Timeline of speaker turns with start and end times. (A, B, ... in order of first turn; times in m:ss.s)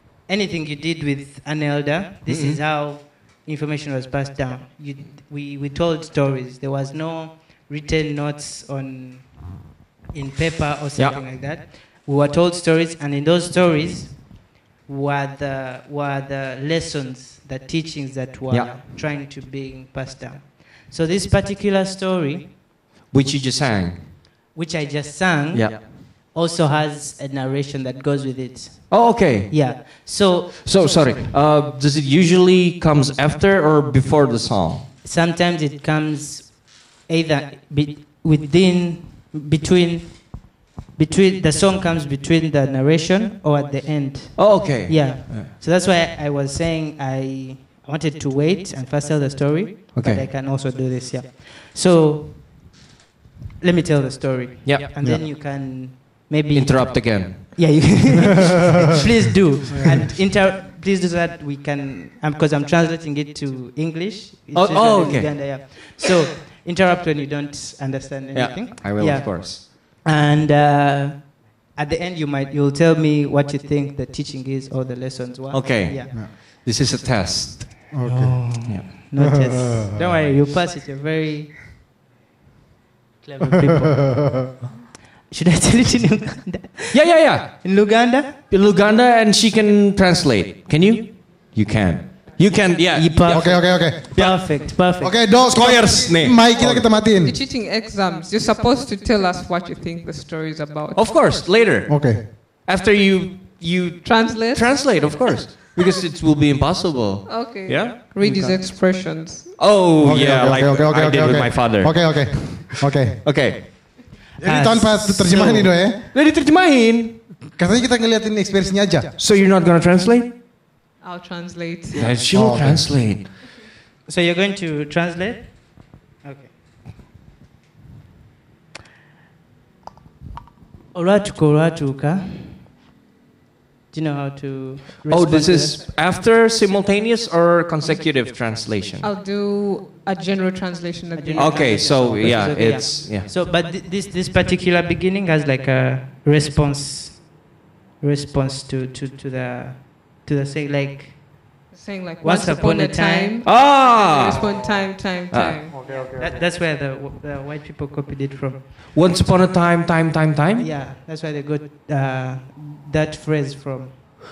0:00.3-0:22.5 A
0:02.3-0:02.6 B
0:18.5-0:18.7 B
0:23.1-0:24.1 B
0:24.5-0:30.6 A
0:25.5-0:25.8 B
0:28.9-0:30.1 B
0:30.6-0:34.9 B
0:35.0-0:52.4 A
0:44.4-0:45.5 B
0:50.0-0:50.3 B
0:53.6-1:16.1 A
0:56.5-0:57.8 B
0:59.7-1:00.0 C
1:04.5-1:05.9 B
1:08.3-1:09.6 B
1:15.5-1:17.9 B
1:17.9-1:20.2 C
1:18.0-1:21.6 A
1:23.2-1:24.4 A
1:25.3-1:28.4 A
1:26.9-1:27.8 B
1:28.5-1:34.7 B
1:32.9-1:35.2 A
1:33.3-1:37.4 C
1:35.5-1:36.9 B
1:36.6-1:41.1 D
1:41.0-1:49.0 B
1:41.9-1:42.2 C
1:44.0-1:45.3 D
1:47.2-1:49.6 D
1:49.6-1:53.6 B
1:50.0-1:53.7 C
1:54.4-1:56.0 C
1:54.4-1:55.7 A
1:56.1-1:57.3 B
1:57.5-1:59.1 C
1:59.2-2:00.3 B
2:01.0-2:02.3 D
2:02.0-2:03.3 B
2:02.3-2:03.1 C
2:04.1-2:06.5 A
2:10.9-2:12.7 A
2:13.9-2:15.8 A
2:15.1-2:19.1 B
2:19.0-2:22.1 D
2:21.2-2:27.4 A
2:21.4-2:23.3 B
2:28.0-2:31.5 A
2:31.7-2:36.0 D
2:32.2-2:33.4 A
2:33.4-2:34.5 B
2:35.3-2:35.6 B
2:35.7-2:36.4 C
2:35.9-2:38.9 A
2:38.9-2:40.7 B
2:40.6-2:44.0 A